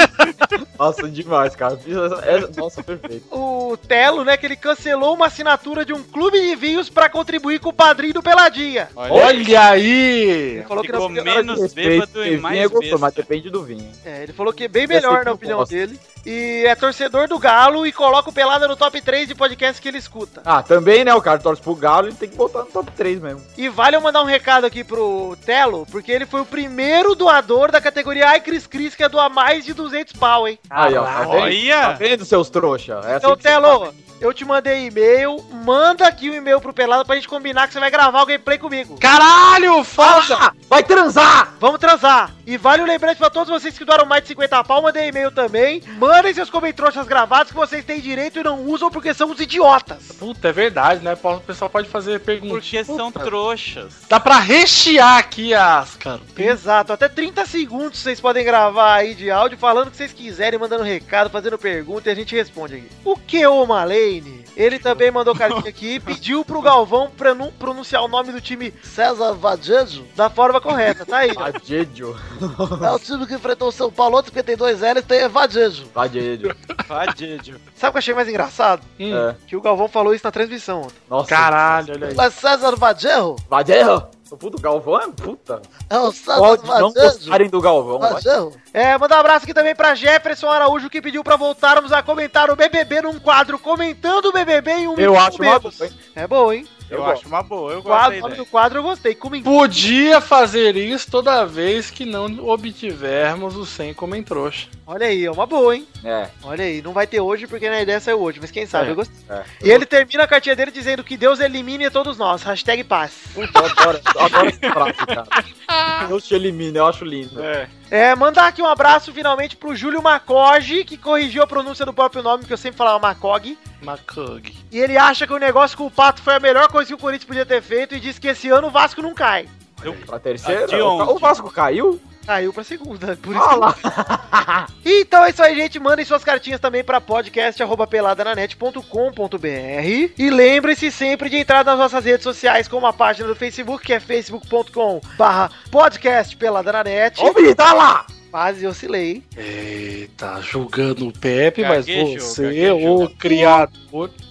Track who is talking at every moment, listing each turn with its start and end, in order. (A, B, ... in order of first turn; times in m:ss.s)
0:00.8-0:03.2 A
0:03.3-0:08.9 B
0:09.0-0:09.5 C
0:09.1-0:10.7 D
0:10.5-0:11.4 B
0:10.8-0:13.2 C
0:11.1-0:14.0 A
0:14.0-0:20.4 B
0:14.9-0:15.7 A
0:20.4-0:23.5 A
0:23.6-0:30.6 B
0:30.7-0:31.5 D
0:30.7-0:33.8 A
0:31.2-0:32.0 C
0:33.1-0:39.0 B
0:39.0-0:40.4 D
0:40.0-0:41.5 A
0:41.6-0:50.2 B
0:50.2-0:53.3 D
0:52.5-0:54.1 C
0:54.1-0:56.6 D
0:56.4-1:08.9 B
1:05.4-1:06.1 C
1:08.8-1:10.1 E
1:10.1-1:11.5 B
1:11.3-1:13.0 A
1:12.8-1:15.9 E
1:15.9-1:16.5 A
1:16.9-1:17.6 C
1:17.8-1:21.0 B
1:19.0-1:19.3 D
1:19.1-1:19.4 A
1:21.1-1:22.2 A
1:21.3-1:22.2 D
1:22.1-1:23.4 E
1:23.5-1:25.7 A
1:25.9-1:27.4 E
1:26.3-1:28.2 A
1:28.0-1:28.6 E
1:28.7-1:36.8 B
1:35.0-1:35.9 A
1:36.9-1:37.2 A
1:36.9-1:38.4 C
1:37.8-1:39.8 B
1:39.4-1:44.7 D
1:44.9-1:45.9 B
1:46.0-1:46.3 A
1:46.4-1:53.4 B
1:48.7-1:49.8 A
1:53.3-1:55.4 A
1:54.3-1:55.4 C
1:56.0-1:57.5 A
1:57.4-1:57.7 C
1:57.9-2:03.6 B
2:03.8-2:04.6 D
2:04.7-2:09.5 B
2:09.8-2:10.1 D
2:09.8-2:11.3 C
2:10.0-2:12.0 A
2:12.3-2:13.7 B
2:13.3-2:14.7 A
2:14.8-2:27.4 B
2:27.2-2:28.1 A
2:28.3-2:29.2 B
2:29.4-2:34.1 D
2:31.6-2:33.3 C